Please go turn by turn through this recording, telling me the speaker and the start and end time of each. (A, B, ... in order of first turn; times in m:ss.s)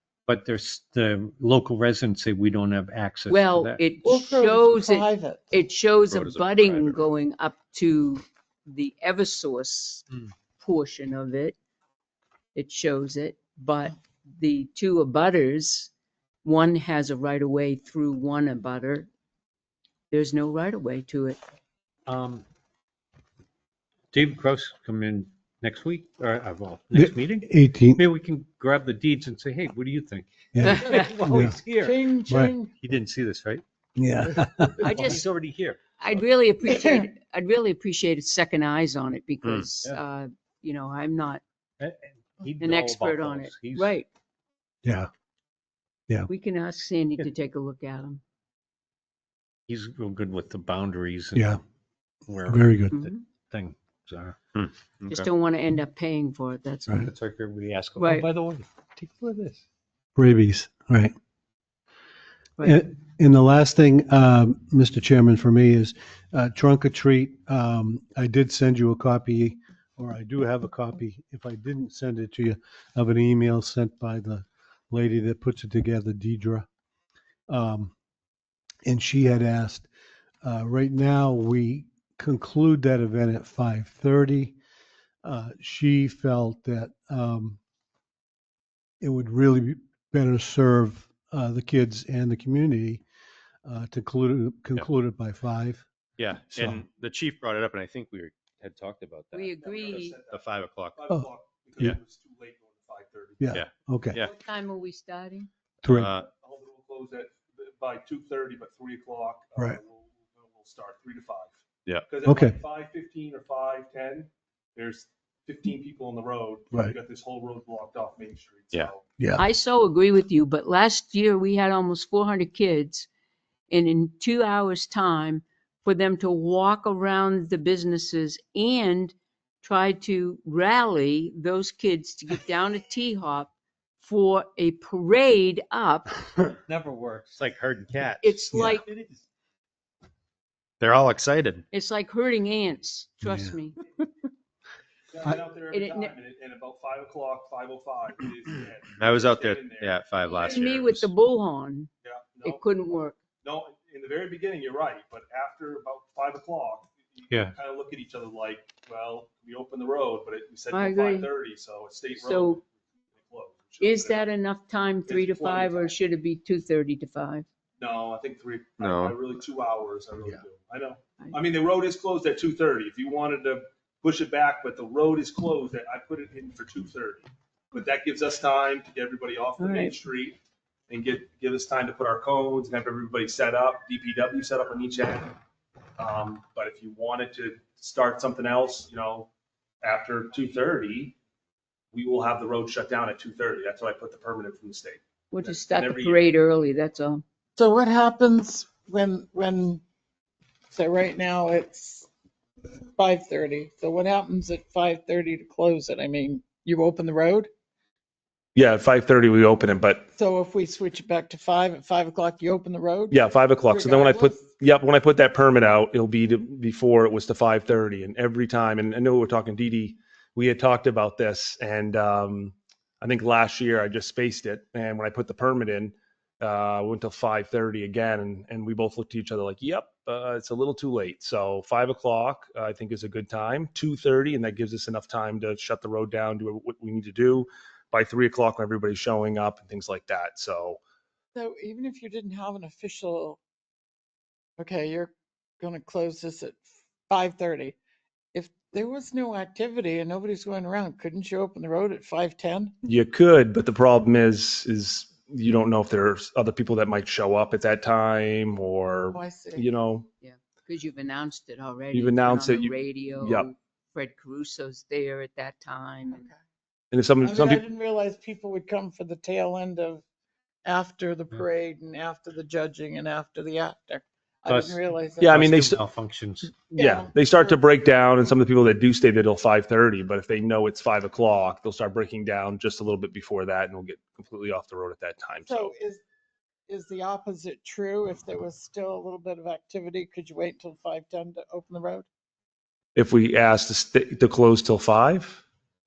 0:00.3-0:03.8 A
0:03.3-0:11.6 B
0:04.0-0:05.5 C
0:06.1-0:07.0 D
0:12.5-0:15.9 B
0:16.4-0:19.1 B
0:20.1-0:21.4 B
0:22.1-0:22.4 A
0:24.1-0:32.0 A
0:26.9-0:28.0 E
0:30.5-0:31.6 E
0:30.7-0:31.1 B
0:31.3-0:32.7 C
0:32.3-0:32.5 E
0:32.8-0:33.6 A
0:34.0-0:34.9 E
0:34.8-0:35.2 B
0:34.8-0:36.2 A
0:36.0-0:41.4 B
0:36.7-0:37.1 C
0:39.4-0:39.7 D
0:41.8-0:43.9 A
0:42.6-0:44.1 B
0:44.8-0:45.1 E
0:46.3-0:48.2 B
0:49.7-0:51.5 A
0:52.3-0:52.8 A
0:52.4-0:53.1 E
0:52.9-0:53.2 B
0:53.5-0:54.4 A
0:54.5-0:55.3 D
0:55.1-0:57.1 B
0:57.0-0:59.6 A
0:58.0-0:58.3 B
1:00.2-1:01.1 E
1:02.6-1:16.6 E
1:17.5-1:17.9 E
1:18.8-1:19.9 E
1:20.4-1:24.6 E
1:25.2-1:27.6 E
1:29.0-1:33.0 E
1:33.6-1:35.9 E
1:36.2-1:39.5 D
1:36.5-1:36.8 E
1:39.3-1:40.2 B
1:39.6-1:43.5 F
1:40.3-1:41.1 D
1:43.4-1:44.2 E
1:43.5-1:44.3 D
1:44.2-1:45.5 B
1:45.8-1:46.1 E
1:45.8-1:46.3 D
1:46.2-1:59.0 F
1:52.2-1:52.6 E
1:59.2-1:59.4 E
1:59.4-2:03.1 B
2:03.7-2:16.2 B
2:16.6-2:19.2 A
2:17.4-2:18.4 D
2:18.2-2:18.8 B
2:20.8-2:21.6 D
2:21.7-2:23.8 B
2:23.2-2:23.6 E
2:25.1-2:30.8 F
2:25.7-2:26.1 B
2:29.0-2:31.1 D
2:30.2-2:31.9 B
2:32.0-2:32.6 F
2:32.4-2:33.2 B
2:33.4-2:44.3 F
2:37.3-2:37.5 A
2:40.7-2:41.3 B
2:42.2-2:42.6 B
2:43.8-2:47.4 B
2:45.1-2:45.9 F
2:47.8-3:00.4 F
2:48.8-2:49.2 D
2:59.6-3:00.0 B
3:00.9-3:05.3 F
3:06.0-3:09.3 F
3:09.8-3:11.1 F
3:11.9-3:16.3 F
3:15.3-3:17.2 B
3:17.6-3:19.8 C
3:20.7-3:22.1 C
3:23.0-3:27.5 C
3:28.5-3:30.1 F
3:30.2-3:34.4 C
3:33.1-4:00.8 F
4:01.3-4:03.4 C
4:04.6-4:07.8 C
4:08.3-4:12.7 C
4:12.8-4:20.1 F
4:19.1-4:19.7 C
4:20.2-4:26.2 B
4:21.9-4:23.5 F
4:26.1-4:26.3 C
4:26.9-4:27.6 F
4:27.2-4:30.0 C
4:30.6-4:35.4 C
4:34.4-4:36.5 A
4:35.2-4:35.8 F
4:36.7-4:45.7 F
4:36.8-4:37.6 C
4:45.4-4:46.0 C
4:46.7-4:52.0 C
4:53.0-4:55.4 F